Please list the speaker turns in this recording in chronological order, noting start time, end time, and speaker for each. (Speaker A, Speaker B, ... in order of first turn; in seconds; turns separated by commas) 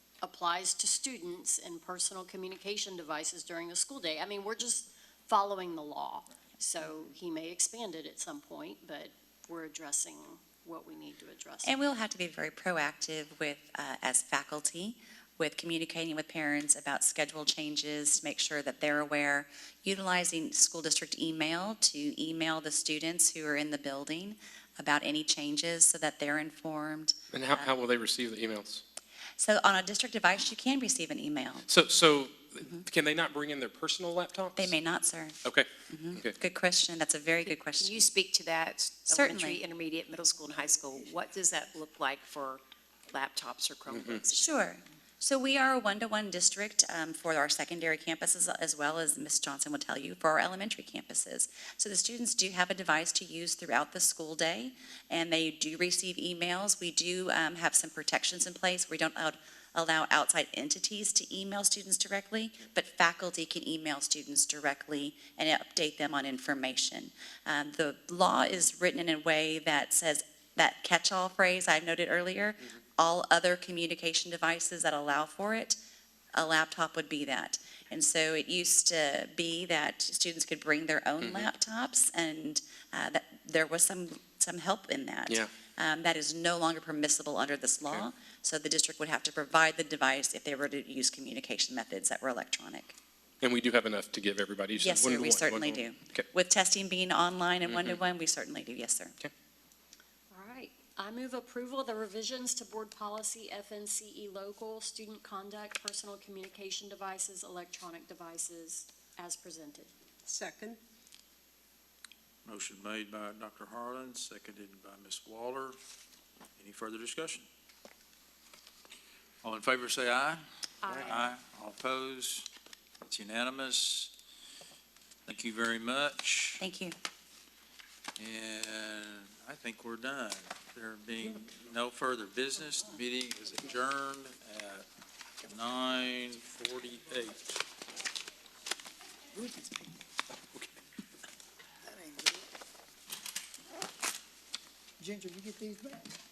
Speaker A: 0.2-11.7, Speaker B: 11.7-27.7, Speaker C: 27.3-28.8, Speaker B: 29.4-31.7, Speaker C: 31.7-34.8, Speaker B: 34.6-38.1, Speaker C: 35.4-36.4, Speaker D: 37.8-42.6, Speaker B: 39.0-39.6, Speaker D: 43.1-44.4, Speaker C: 43.9-44.2, Speaker B: 44.4-75.8, Speaker B: 76.3-93.0, Speaker C: 81.2-81.5, Speaker C: 93.4-96.2, Speaker B: 94.8-99.2, Speaker C: 97.7-98.0, Speaker A: 100.3-109.9, Speaker E: 112.5-115.8, Speaker E: 116.6-117.5, Speaker E: 119.4-120.4, Speaker A: 120.8-121.3, Speaker E: 121.0-122.5, Speaker E: 123.0-124.1, Speaker E: 125.3-126.6, Speaker B: 126.6-127.0, Speaker E: 128.2-134.8, Speaker E: 135.5-137.6, Speaker F: 139.3-139.9, Speaker F: 141.9-142.4, Speaker F: 145.0-146.1